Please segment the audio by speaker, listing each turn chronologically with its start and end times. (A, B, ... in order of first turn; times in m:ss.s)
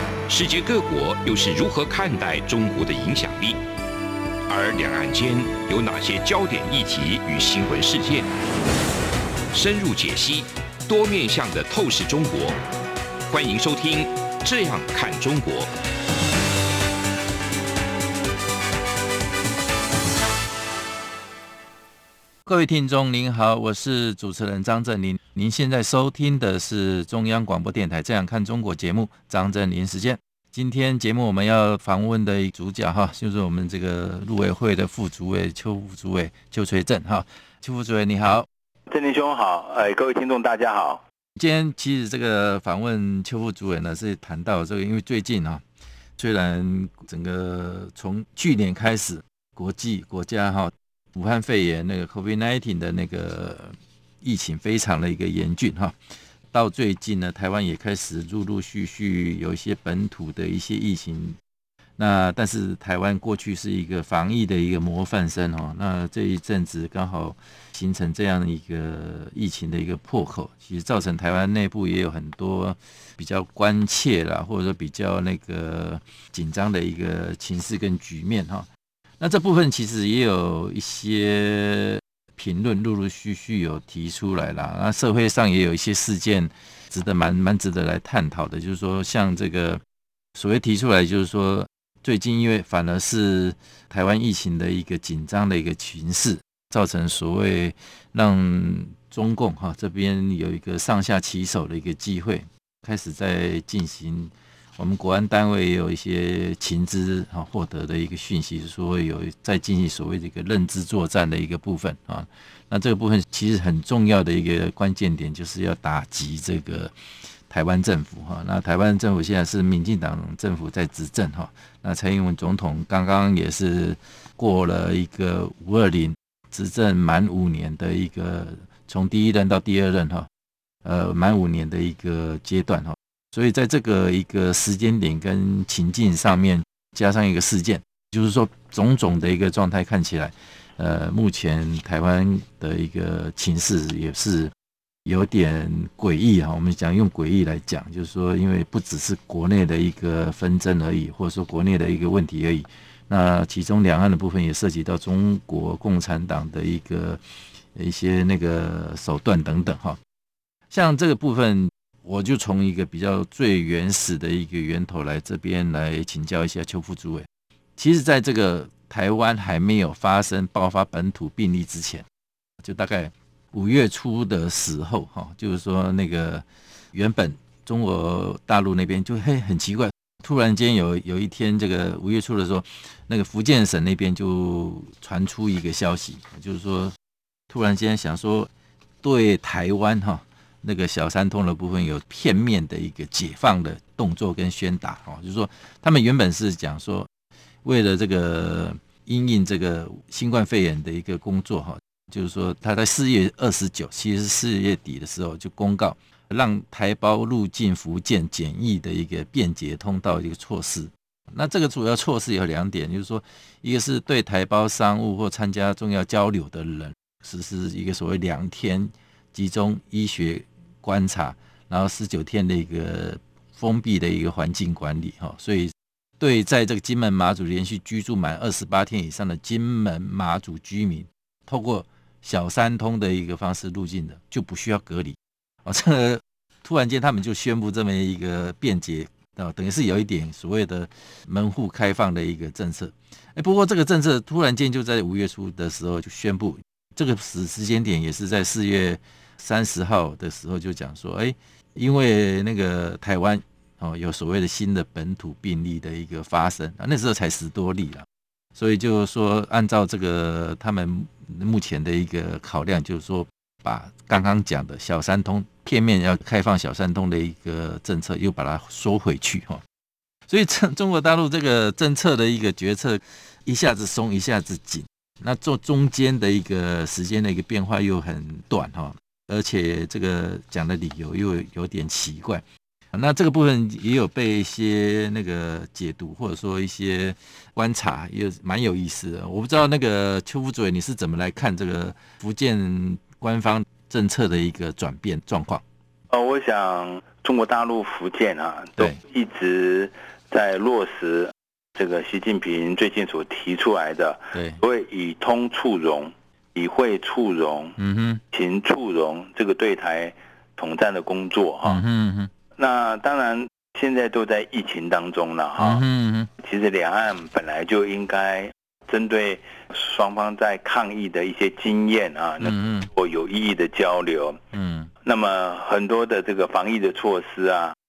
0:00.3-0:03.6 A
0:04.5-0:08.3 A
0:09.5-0:12.6 A
0:13.3-0:15.7 A
0:22.4-0:38.5 B
0:38.9-0:41.0 C
0:41.4-0:45.6 B
0:46.2-0:56.0 B
0:56.5-1:01.4 B
1:02.0-1:18.7 B
1:19.2-1:29.8 B
1:30.4-1:56.9 B
1:57.5-2:10.3 B
2:10.8-2:24.5 B
2:25.0-2:37.2 B
2:37.7-2:40.0 B
2:40.7-2:52.0 B
2:52.6-3:07.0 B
3:07.5-3:08.5 B
3:09.0-3:17.1 B
3:17.6-4:29.6 B
4:30.3-4:55.6 B
4:56.1-5:07.8 C
5:04.3-5:04.6 B
5:07.8-5:08.2 B
5:08.3-5:11.8 C
5:11.6-5:12.3 B
5:12.6-5:15.8 C
5:15.6-5:16.3 B
5:16.4-5:24.4 C
5:22.4-5:22.9 B
5:24.5-5:24.9 B
5:25.0-5:27.7 C